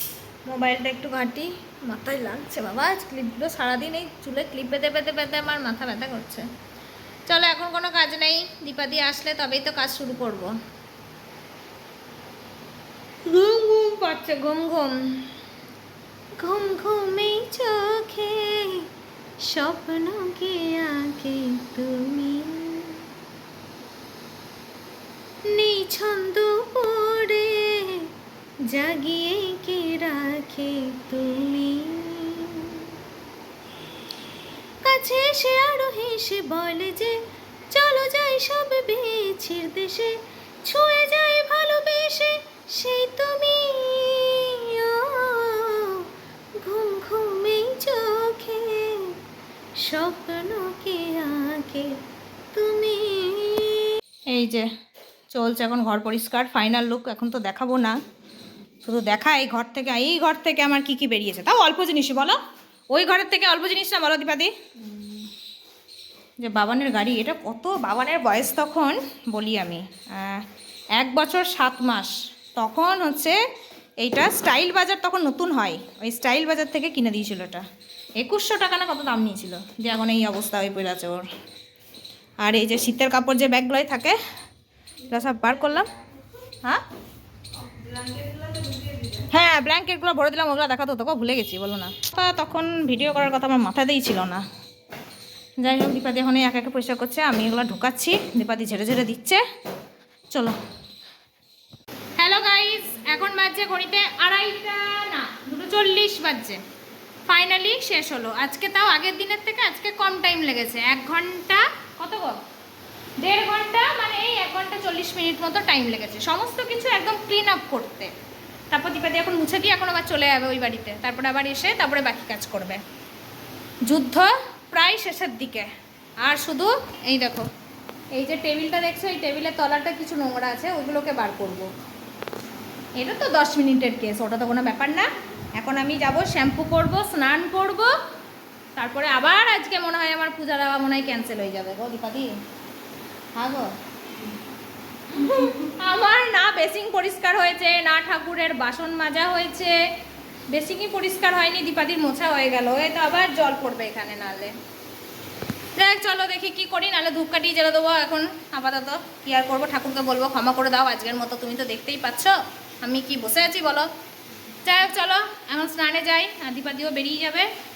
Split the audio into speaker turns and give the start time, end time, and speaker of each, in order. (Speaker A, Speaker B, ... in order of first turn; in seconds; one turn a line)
Speaker A: 0.5-6.4
Speaker A: 7.3-10.5
Speaker A: 13.3-15.3
Speaker A: 16.4-18.9
Speaker A: 19.4-23.0
Speaker A: 25.5-28.1
Speaker A: 28.7-32.9
Speaker A: 34.8-37.2
Speaker A: 37.7-46.0
Speaker A: 46.6-49.1
Speaker A: 49.8-51.9
Speaker A: 52.5-54.7
Speaker A: 55.3-58.0
Speaker A: 58.8-62.4
Speaker A: 62.9-65.2
Speaker A: 66.4-70.4
Speaker A: 71.0-73.3
Speaker A: 74.0-77.6
Speaker A: 78.2-81.2
Speaker A: 82.4-84.2
Speaker A: 85.1-85.9
Speaker A: 89.1-94.4
Speaker A: 95.6-99.4
Speaker A: 102.2-106.6
Speaker A: 107.3-112.4
Speaker A: 113.2-118.1
Speaker A: 118.7-122.8
Speaker A: 123.8-125.7
Speaker A: 126.2-127.5
Speaker A: 128.1-131.7
Speaker A: 133.0-137.9
Speaker A: 138.8-142.3
Speaker A: 143.4-143.7
Speaker A: 145.2-149.8
Speaker A: 150.5-154.5
Speaker A: 155.8-163.9
Speaker A: 164.6-167.5